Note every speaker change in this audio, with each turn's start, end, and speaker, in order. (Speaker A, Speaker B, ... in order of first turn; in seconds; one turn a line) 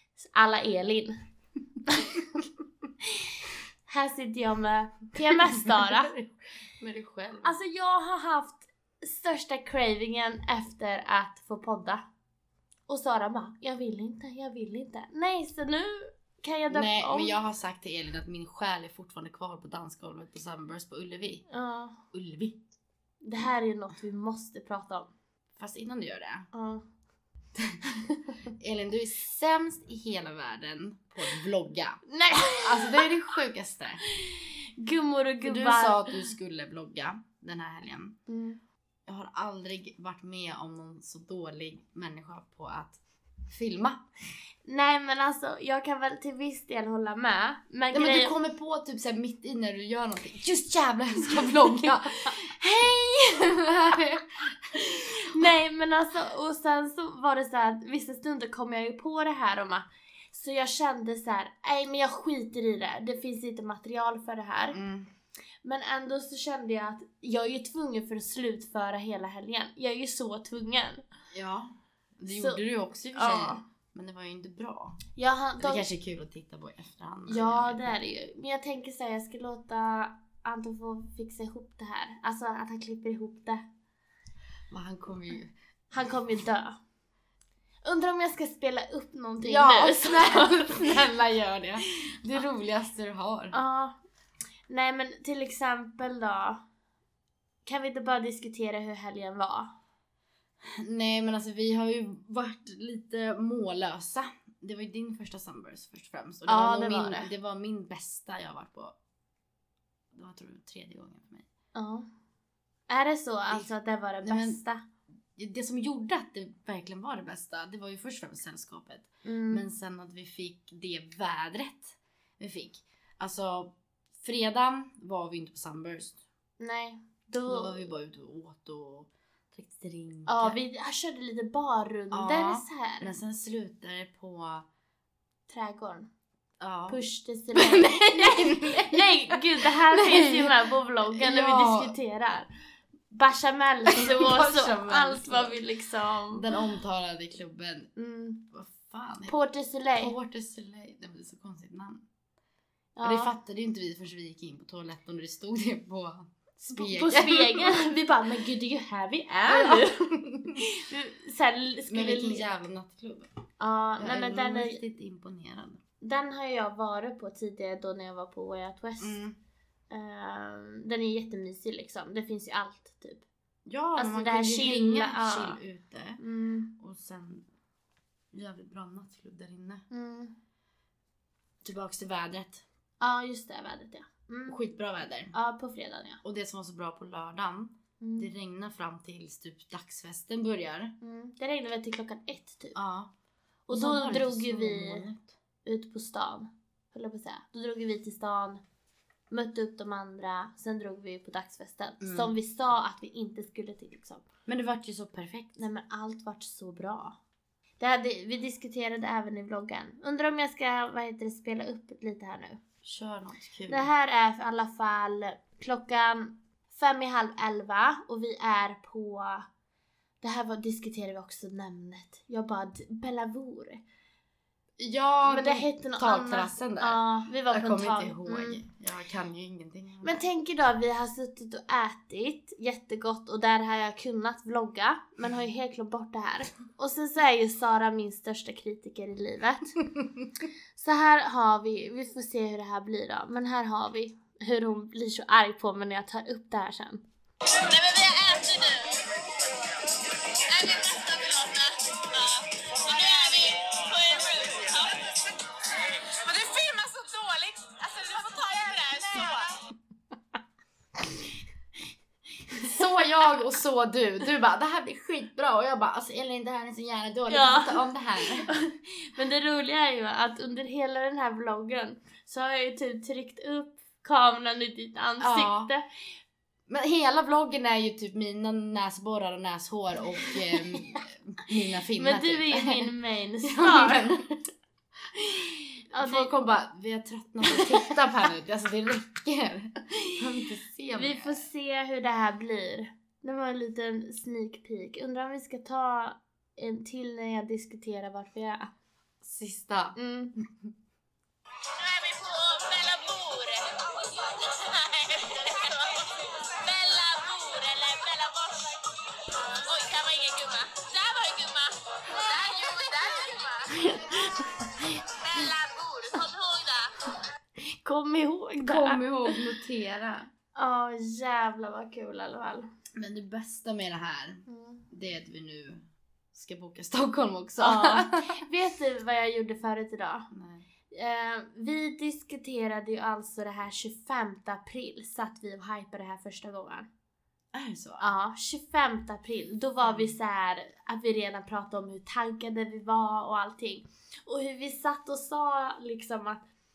Speaker A: 0.2-1.2
Speaker A: 1.9-2.2
Speaker A: 3.2-6.2
Speaker B: 5.5-6.3
Speaker B: 6.8-7.6
Speaker A: 7.4-12.0
Speaker A: 12.9-17.4
Speaker B: 16.7-21.5
Speaker A: 21.5-22.0
Speaker B: 22.1-22.6
Speaker A: 23.2-25.1
Speaker B: 25.6-26.5
Speaker A: 26.5-26.8
Speaker B: 27.6-34.0
Speaker A: 32.1-33.1
Speaker A: 34.1-36.3
Speaker B: 35.4-38.2
Speaker A: 38.3-38.6
Speaker B: 39.1-44.0
Speaker A: 44.6-48.4
Speaker B: 47.9-55.5
Speaker A: 55.2-64.8
Speaker B: 64.7-65.1
Speaker A: 65.6-71.0
Speaker B: 71.3-75.0
Speaker A: 72.3-72.6
Speaker A: 73.2-73.6
Speaker A: 75.2-75.9
Speaker B: 75.6-77.9
Speaker A: 77.3-83.6
Speaker B: 84.7-85.5
Speaker A: 85.9-86.8
Speaker A: 87.8-91.0
Speaker B: 89.5-93.6
Speaker A: 93.5-94.0
Speaker A: 94.7-96.7
Speaker A: 97.7-99.7
Speaker B: 100.8-109.0
Speaker A: 106.5-107.3
Speaker B: 110.1-111.5
Speaker A: 111.8-112.1
Speaker A: 112.9-114.8
Speaker B: 114.2-114.6
Speaker B: 115.4-126.2
Speaker A: 119.2-119.7
Speaker A: 126.6-127.9
Speaker B: 127.4-130.6
Speaker A: 130.3-133.1
Speaker B: 132.1-134.7
Speaker A: 135.5-136.1
Speaker B: 136.6-137.0
Speaker A: 136.9-142.5
Speaker B: 137.6-142.0
Speaker A: 143.1-146.4
Speaker B: 143.9-145.6
Speaker B: 146.3-147.9
Speaker A: 148.0-148.5
Speaker B: 148.5-149.3
Speaker A: 149.3-150.2
Speaker B: 149.9-152.1
Speaker A: 153.0-153.3
Speaker B: 153.0-157.9
Speaker A: 156.7-160.1
Speaker B: 159.5-160.6
Speaker A: 160.6-162.5
Speaker B: 161.9-163.3
Speaker A: 163.6-164.8
Speaker B: 164.0-165.8
Speaker A: 166.0-169.2
Speaker B: 169.0-169.4
Speaker A: 169.9-173.3
Speaker B: 173.7-176.2
Speaker A: 174.0-175.6
Speaker A: 176.2-176.8
Speaker B: 176.8-177.4
Speaker B: 178.3-179.8
Speaker A: 179.9-180.4
Speaker B: 181.6-182.6
Speaker A: 183.0-184.6
Speaker B: 184.5-185.3
Speaker A: 185.3-186.2
Speaker B: 186.2-190.9
Speaker A: 188.0-188.3
Speaker A: 191.0-192.8
Speaker B: 192.8-193.1
Speaker A: 193.7-195.1
Speaker B: 193.7-195.3
Speaker A: 195.6-198.6
Speaker A: 199.3-204.2
Speaker B: 202.0-202.3
Speaker B: 204.5-205.6
Speaker A: 205.6-207.2
Speaker A: 207.8-212.6
Speaker B: 212.8-213.9
Speaker A: 213.7-219.5
Speaker A: 220.2-223.8
Speaker B: 224.8-230.2
Speaker A: 225.2-228.6
Speaker A: 230.0-239.8
Speaker A: 240.8-247.0
Speaker C: 247.7-249.1
Speaker C: 250.5-255.1
Speaker C: 256.0-259.5
Speaker B: 262.6-268.5
Speaker A: 267.3-275.9
Speaker B: 275.2-275.7
Speaker B: 276.7-282.9
Speaker A: 280.2-280.9
Speaker A: 282.0-284.2
Speaker B: 283.4-284.4
Speaker A: 285.3-286.3
Speaker B: 285.9-291.5
Speaker A: 287.5-287.9
Speaker A: 290.9-298.7
Speaker B: 299.2-300.0
Speaker A: 300.0-300.4
Speaker C: 301.8-303.8
Speaker C: 304.6-305.9
Speaker C: 306.5-308.8
Speaker A: 309.7-311.1
Speaker C: 309.8-313.6
Speaker A: 313.6-316.4
Speaker C: 315.4-316.8
Speaker A: 317.6-319.4
Speaker B: 318.6-320.3
Speaker A: 320.6-322.7
Speaker B: 323.0-328.4
Speaker A: 324.5-324.9
Speaker A: 327.6-330.3
Speaker B: 330.3-330.7
Speaker A: 330.9-336.9
Speaker B: 337.5-338.1
Speaker A: 338.0-346.4
Speaker B: 339.8-340.2